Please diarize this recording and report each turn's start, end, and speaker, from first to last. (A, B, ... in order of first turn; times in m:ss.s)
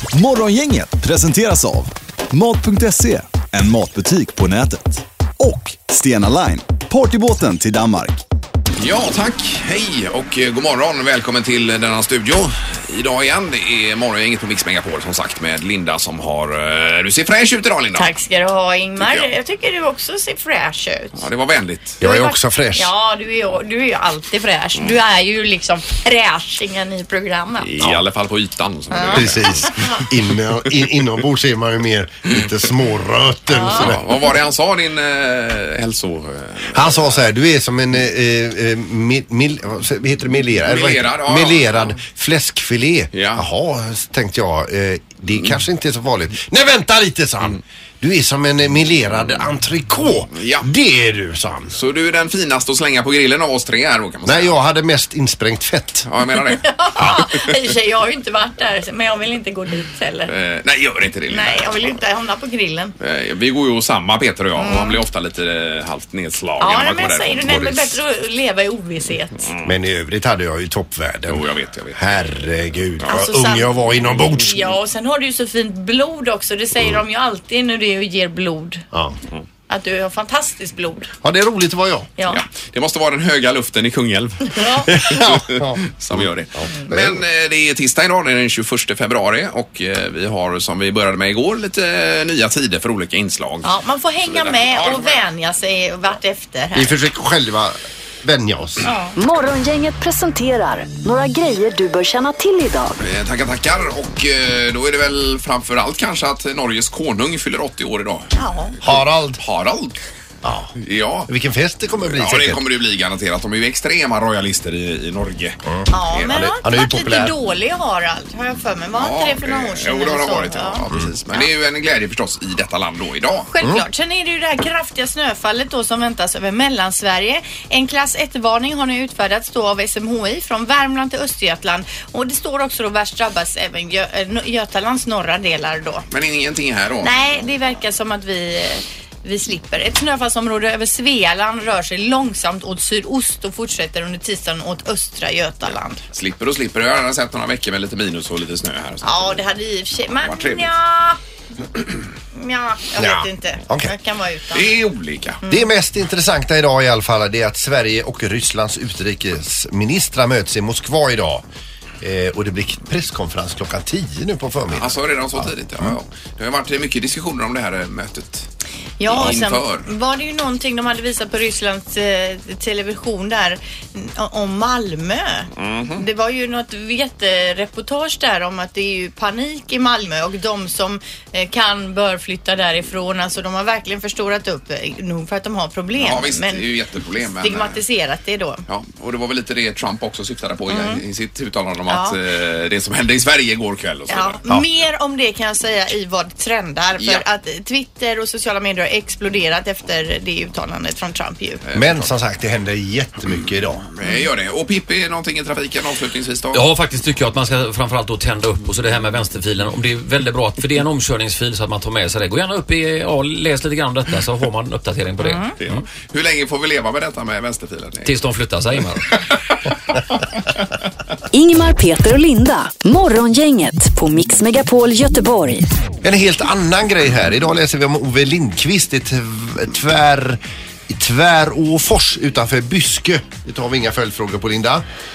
0:00.1-0:08.2 A
0:08.8-0:18.1 B
0:18.0-0:21.2 C
0:19.0-0:19.3 B
0:21.2-0:22.0 B
0:22.0-0:22.9 D
0:22.0-0:27.7 C
0:27.6-0:30.0 B
0:28.9-0:30.0 C
0:29.1-0:34.1 D
0:33.5-0:34.0 C
0:33.7-0:37.2 B
0:36.7-0:51.8 D
0:40.7-0:42.0 B
0:43.1-0:43.5 B
0:50.4-0:50.7 B
0:51.7-0:54.6 B
0:54.2-0:56.1 D
0:56.1-0:57.2 B
0:56.6-1:00.3 C
1:00.3-1:01.9 B
1:01.3-1:02.9 C
1:03.0-1:08.0 B
1:04.6-1:05.0 C
1:06.6-1:09.5 C
1:09.6-1:14.7 D
1:11.3-1:12.1 B
1:13.1-1:13.8 C
1:14.3-1:18.8 C
1:18.9-1:19.2 D
1:19.7-1:21.1 C
1:21.2-1:22.1 D
1:22.2-1:22.4 C
1:22.3-1:33.7 B
1:24.5-1:24.9 C
1:24.9-1:27.2 D
1:33.6-1:37.0 C
1:34.3-1:35.2 B
1:36.8-1:38.9 D
1:38.9-1:39.1 C
1:39.2-1:43.0 E
1:43.0-1:48.3 B
1:48.4-1:48.8 C
1:48.8-1:50.0 B
1:48.8-1:49.4 D
1:50.4-1:50.7 D
1:50.8-1:51.3 B
1:51.3-1:52.7 D
1:52.1-1:56.5 B
1:55.7-1:57.3 D
1:55.9-2:01.5 C
1:59.0-2:03.5 B
2:03.5-2:16.1 C
2:16.1-2:17.5 B
2:17.0-2:26.0 C
2:26.1-2:29.5 B
2:29.0-2:31.2 C
2:30.2-2:30.8 B
2:32.3-2:34.7 C
2:33.0-2:33.9 D
2:34.5-2:35.4 B
2:35.5-2:41.4 D
2:42.0-2:45.9 D
2:44.7-2:48.5 B
2:49.0-3:06.6 C
2:49.0-2:49.9 B
2:55.6-2:56.0 B
3:06.0-3:07.8 B
3:07.4-3:08.6 C
3:08.7-3:14.4 B
3:10.7-3:11.0 C
3:11.9-3:12.2 C
3:14.1-3:21.6 C
3:17.0-3:17.2 B
3:21.7-3:22.1 B
3:21.7-3:23.9 D
3:24.0-3:26.6 B
3:26.5-3:35.8 F
3:35.2-3:35.5 C
3:35.6-3:38.1 B
3:38.0-3:39.1 F
3:41.3-3:45.7 E
3:46.0-3:54.8 D